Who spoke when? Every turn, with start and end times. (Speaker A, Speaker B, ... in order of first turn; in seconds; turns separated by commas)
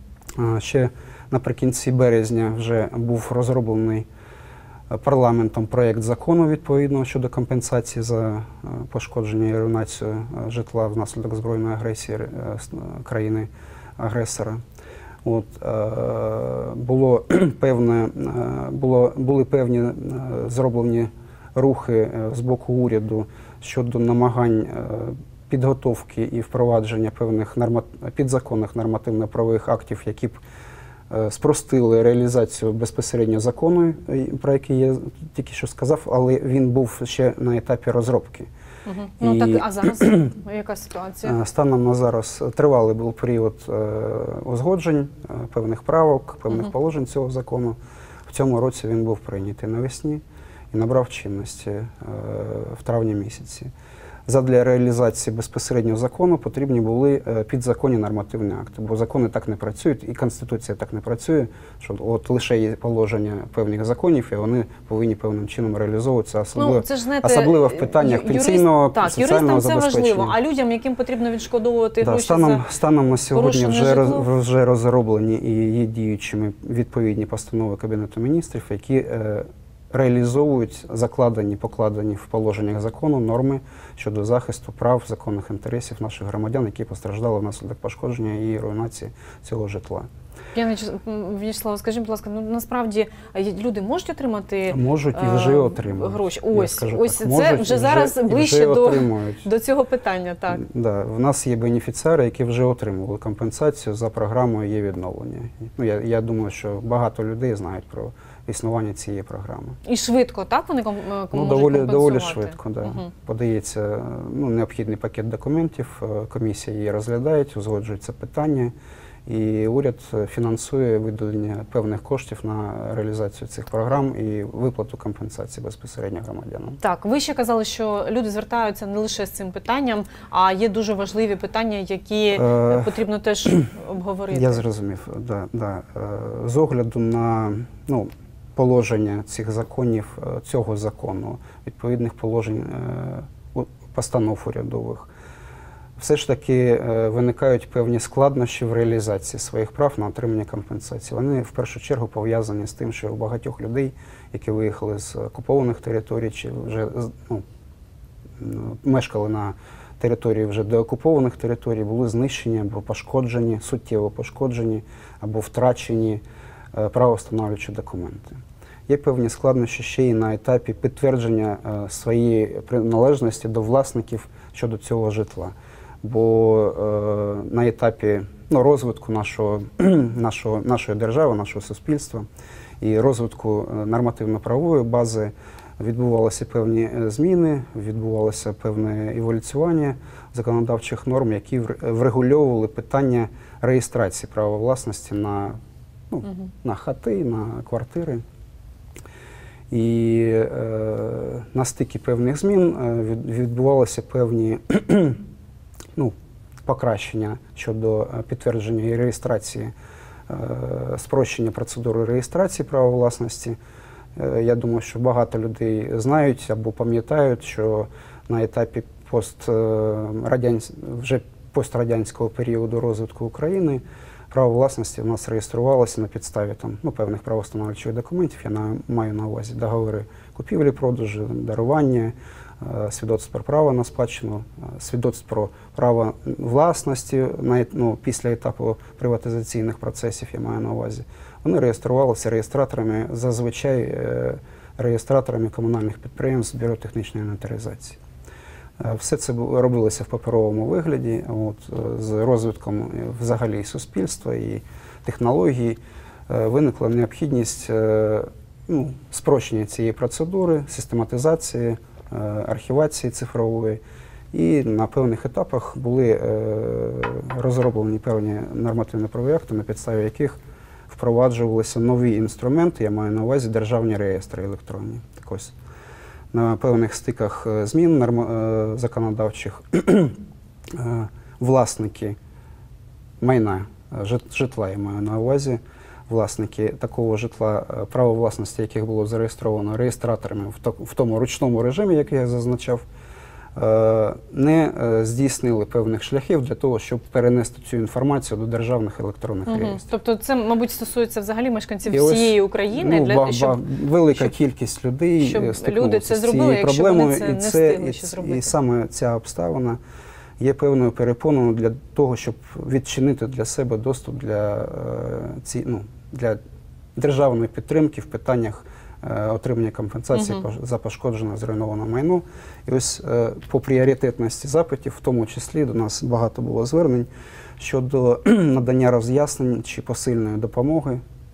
Speaker A: 0.3-4.1, Speaker A: 4.9-14.6, Speaker A: 15.2-30.4, Speaker A: 31.1-38.5, Speaker B: 38.9-41.4, Speaker A: 39.2-40.2, Speaker A: 41.2-53.7, Speaker A: 54.3-70.3, Speaker B: 66.5-72.7, Speaker A: 72.0-90.1, Speaker B: 73.3-74.3, Speaker B: 90.5-100.6, Speaker A: 94.7-99.5, Speaker A: 100.5-109.8, Speaker B: 109.8-113.1, Speaker A: 111.3-118.7, Speaker A: 119.2-126.8, Speaker B: 126.8-134.6, Speaker A: 132.4-132.9, Speaker A: 134.3-145.1, Speaker A: 146.0-157.4, Speaker A: 158.4-166.2, Speaker A: 166.7-182.2, Speaker A: 182.8-195.6, Speaker A: 196.1-198.2, Speaker A: 199.7-205.2, Speaker A: 206.6-209.7, Speaker A: 210.3-213.6, Speaker A: 214.2-248.0, Speaker A: 248.8-263.8, Speaker A: 264.3-275.5, Speaker A: 276.3-280.2, Speaker A: 280.7-282.2, Speaker A: 283.2-292.8, Speaker A: 293.6-299.8, Speaker B: 299.5-304.3, Speaker A: 301.9-309.8, Speaker B: 305.2-308.5, Speaker A: 310.4-316.4, Speaker A: 316.9-331.0, Speaker B: 320.1-320.4